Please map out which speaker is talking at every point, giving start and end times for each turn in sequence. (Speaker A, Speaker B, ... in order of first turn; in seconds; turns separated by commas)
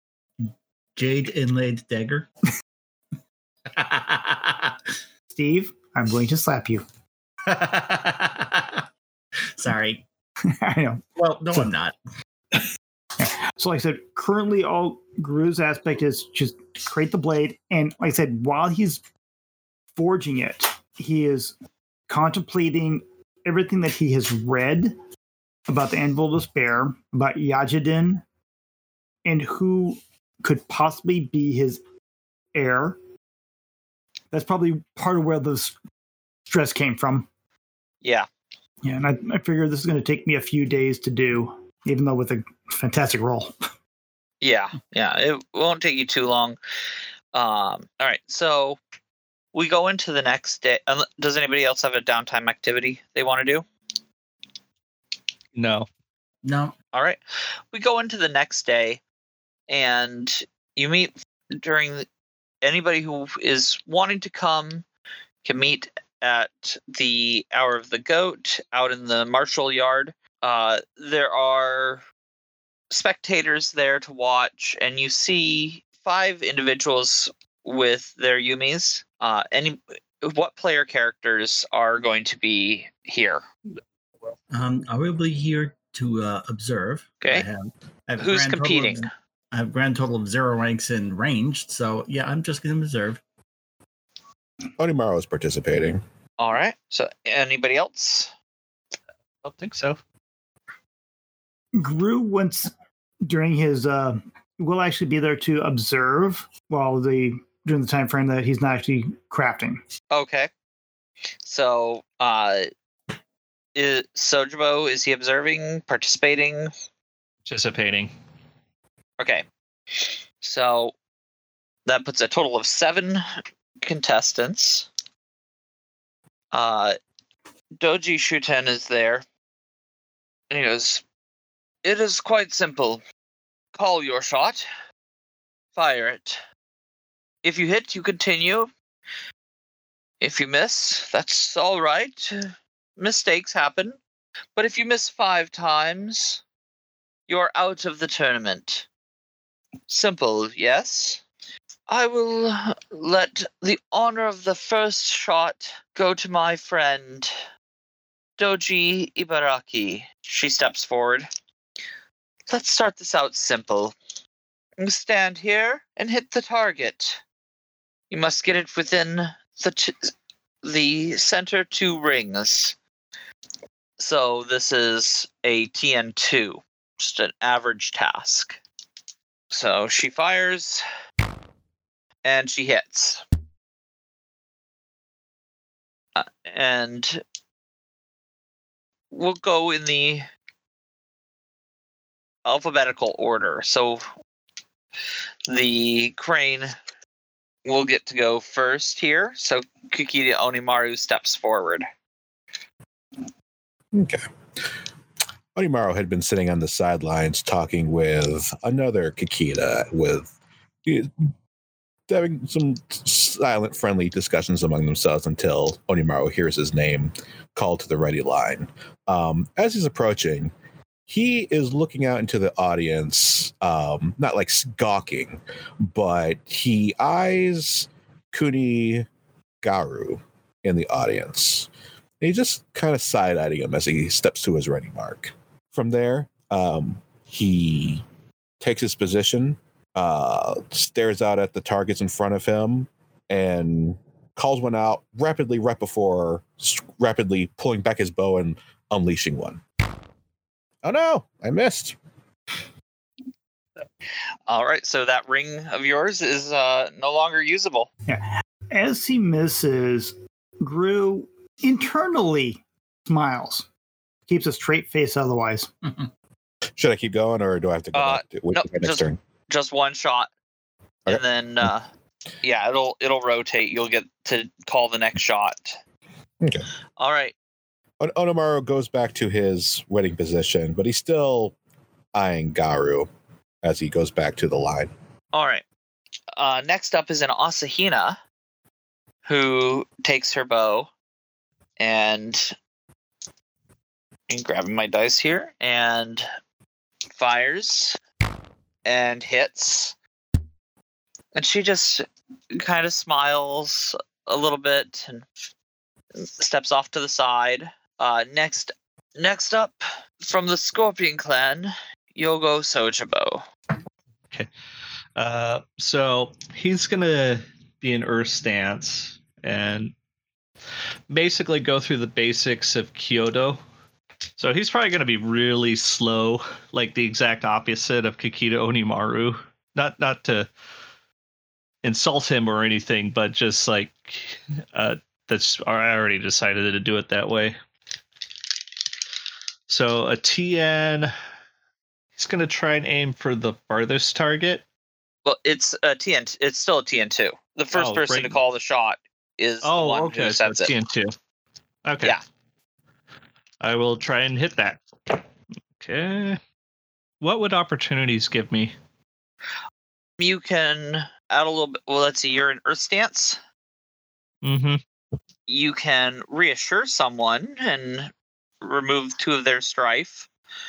Speaker A: 0.4-2.3, Speaker A: 3.6-4.9, Speaker B: 5.3-6.8, Speaker A: 7.5-8.9, Speaker A: 9.6-10.1, Speaker B: 10.6-11.7, Speaker A: 11.2-11.9, Speaker B: 13.2-19.0, Speaker B: 19.9-21.6, Speaker B: 22.1-25.0, Speaker B: 25.7-28.2, Speaker B: 29.2-31.8, Speaker B: 32.5-33.0, Speaker B: 34.3-35.8, Speaker B: 36.5-37.3, Speaker C: 38.0-38.3, Speaker B: 38.8-43.5, Speaker C: 44.4-46.6, Speaker C: 47.3-48.8, Speaker C: 49.5-53.6, Speaker D: 55.5-55.9, Speaker A: 56.4-56.7, Speaker C: 56.9-57.2, Speaker C: 57.7-59.0, Speaker C: 59.7-62.0, Speaker C: 62.6-64.8, Speaker C: 65.4-72.0, Speaker C: 72.9-83.4, Speaker A: 84.5-93.2, Speaker C: 87.2-87.5, Speaker C: 88.2-89.1, Speaker E: 94.8-96.0, Speaker C: 96.4-98.3, Speaker D: 99.4-100.0, Speaker B: 101.8-102.7, Speaker B: 103.2-109.8, Speaker C: 110.1-110.5, Speaker C: 111.4-112.7, Speaker C: 113.7-116.7, Speaker D: 117.5-118.1, Speaker C: 119.2-119.5, Speaker C: 120.0-120.9, Speaker C: 121.8-123.2, Speaker C: 123.8-124.9, Speaker C: 126.5-127.0, Speaker C: 127.8-129.2, Speaker C: 130.5-131.0, Speaker C: 131.8-133.0, Speaker C: 133.7-134.6, Speaker C: 135.7-136.4, Speaker C: 137.4-138.7, Speaker C: 140.2-144.0, Speaker C: 144.6-146.4, Speaker C: 147.3-148.9, Speaker C: 149.9-151.2, Speaker C: 151.9-157.3, Speaker C: 158.4-161.3, Speaker C: 162.5-163.9, Speaker C: 164.8-167.2, Speaker C: 168.1-172.8, Speaker C: 174.0-178.6, Speaker C: 179.5-180.8, Speaker C: 182.2-183.2, Speaker C: 186.1-187.2, Speaker C: 189.1-190.2, Speaker C: 192.4-194.0, Speaker C: 195.5-196.7, Speaker C: 197.7-201.8, Speaker E: 203.9-204.7, Speaker E: 205.5-210.3, Speaker E: 210.8-211.1, Speaker E: 212.1-220.5, Speaker E: 221.1-225.4, Speaker E: 225.9-229.1, Speaker E: 229.6-231.7, Speaker E: 232.2-238.0, Speaker E: 238.6-249.6, Speaker E: 250.8-251.9, Speaker C: 254.5-257.9, Speaker B: 258.1-263.7, Speaker B: 264.3-265.7, Speaker E: 266.8-269.2, Speaker C: 267.9-270.3, Speaker C: 271.1-271.9, Speaker C: 272.4-275.8, Speaker C: 277.0-277.3, Speaker E: 278.0-281.5, Speaker E: 282.1-283.1, Speaker E: 283.6-284.9, Speaker C: 285.3-285.6, Speaker C: 286.3-288.2, Speaker C: 289.2-290.9, Speaker C: 291.8-292.6, Speaker C: 294.3-296.2, Speaker C: 297.1-298.0, Speaker C: 298.9-299.9, Speaker C: 301.3-305.3, Speaker C: 306.2-313.4, Speaker D: 315.1-319.9, Speaker D: 321.1-323.6, Speaker D: 324.4-330.5, Speaker D: 331.8-337.6, Speaker D: 339.7-341.1, Speaker D: 342.2-344.6, Speaker C: 345.2-350.7, Speaker D: 347.7-348.4, Speaker D: 349.6-351.1, Speaker D: 351.9-352.1, Speaker D: 353.6-355.2, Speaker D: 355.8-356.4, Speaker D: 357.2-358.7, Speaker C: 360.2-363.4, Speaker D: 364.4-364.8, Speaker C: 365.5-370.3